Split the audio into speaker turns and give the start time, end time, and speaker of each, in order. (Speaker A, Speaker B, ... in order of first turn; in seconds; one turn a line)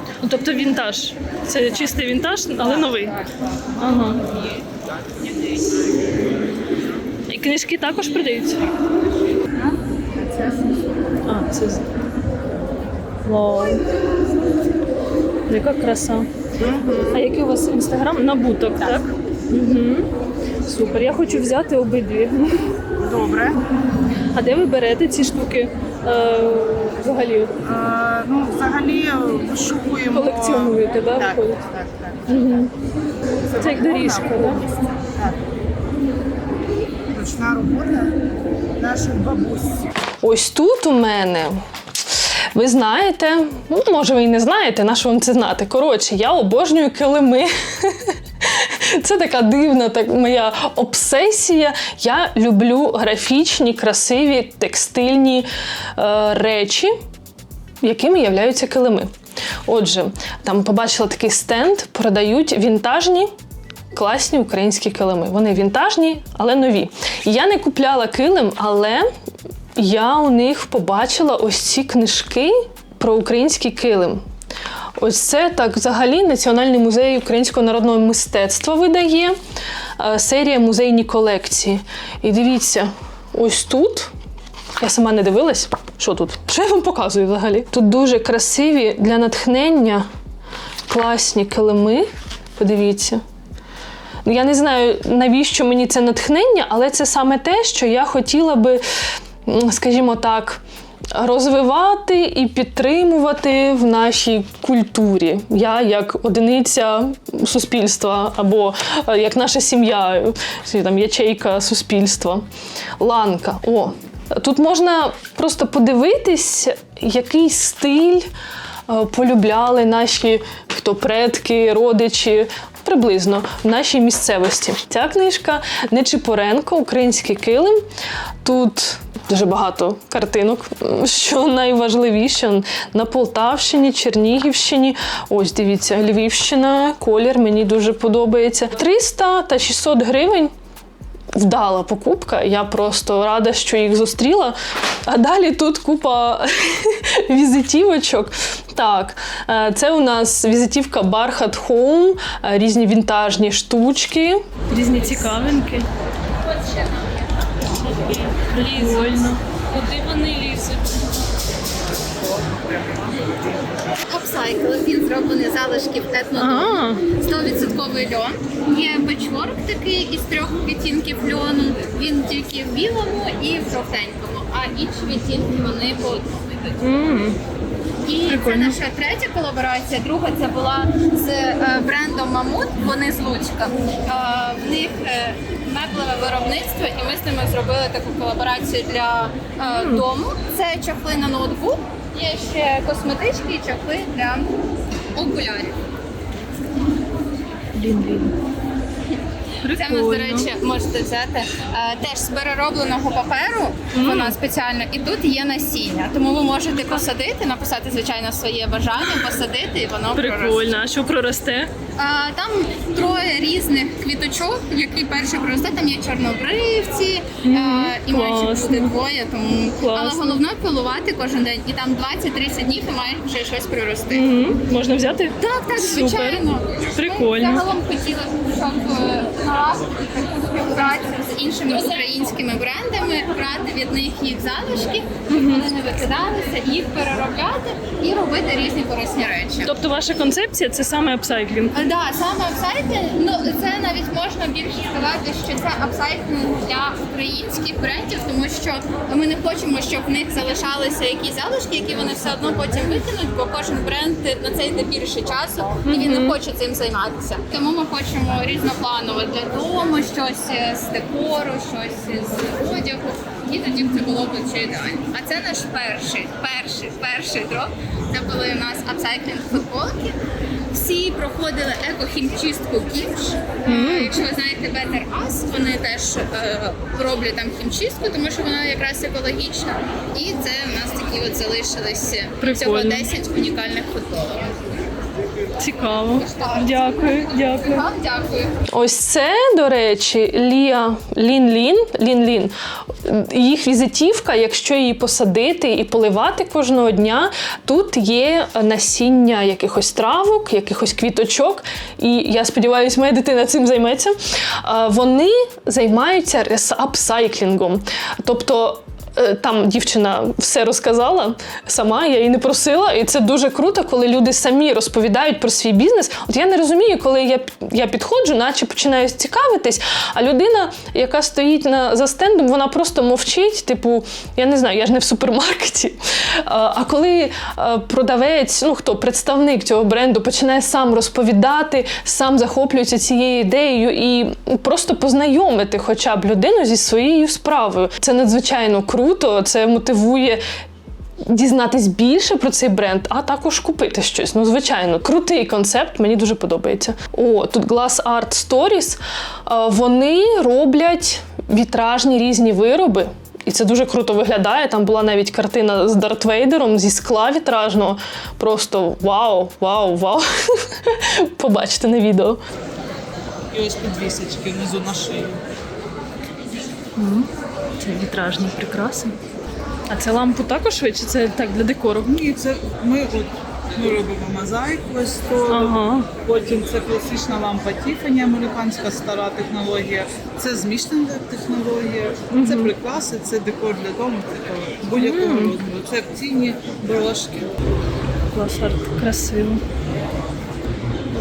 Speaker A: 0.2-3.2
Speaker B: 2.6-3.2
Speaker A: 3.8-4.2
Speaker B: 4.0-4.6
Speaker B: 5.2-5.7
Speaker A: 7.3-8.6
Speaker A: 11.3-11.9
Speaker A: 13.2-13.8
Speaker A: 15.5-16.3
Speaker B: 16.6-17.2
Speaker A: 17.1-20.1
Speaker A: 20.7-22.7
Speaker B: 23.0-23.6
Speaker A: 24.3-27.5
Speaker B: 27.6-32.4
Speaker A: 30.1-31.6
Speaker A: 32.3-32.7
Speaker B: 33.5-35.4
Speaker A: 33.6-34.6
Speaker B: 37.1-38.2
Speaker B: 38.8-39.9
Speaker A: 40.2-56.9
Speaker A: 57.8-59.1
Speaker A: 59.7-63.3
Speaker A: 63.9-69.1
Speaker A: 69.8-74.2
Speaker A: 75.0-79.4
Speaker A: 80.0-84.1
Speaker A: 84.8-90.1
Speaker A: 90.9-93.2
Speaker A: 94.2-98.8
Speaker A: 99.4-100.6
Speaker A: 101.1-112.4
Speaker A: 113.0-118.3
Speaker A: 118.9-127.8
Speaker A: 128.4-140.5
Speaker A: 141.3-155.9
Speaker B: 157.9-160.8
Speaker A: 158.5-159.4
Speaker C: 164.1-176.9
Speaker A: 166.3-167.1
Speaker A: 176.8-177.4
Speaker C: 178.0-194.5
Speaker A: 178.3-178.8
Speaker A: 189.6-190.0
Speaker C: 195.2-195.8
Speaker A: 197.8-198.3
Speaker A: 199.6-200.5
Speaker C: 199.7-210.7
Speaker A: 203.9-204.3
Speaker A: 210.2-211.7
Speaker C: 212.0-224.2
Speaker A: 217.4-218.9
Speaker A: 219.8-220.4
Speaker A: 224.1-226.4
Speaker C: 225.4-239.7
Speaker A: 226.9-227.7
Speaker A: 235.3-235.7
Speaker A: 239.7-241.7
Speaker C: 241.7-270.2
Speaker A: 255.8-256.3
Speaker C: 270.7-284.9
Speaker A: 273.7-274.1
Speaker A: 282.4-283.1
Speaker A: 285.6-287.9
Speaker C: 285.9-288.5
Speaker A: 288.7-340.4
Speaker A: 341.2-362.4
Speaker B: 363.5-365.4
Speaker A: 367.0-369.1
Speaker A: 369.9-372.2
Speaker B: 372.1-387.5
Speaker A: 375.5-376.1
Speaker A: 382.3-382.7
Speaker A: 385.0-385.6
Speaker A: 388.3-389.6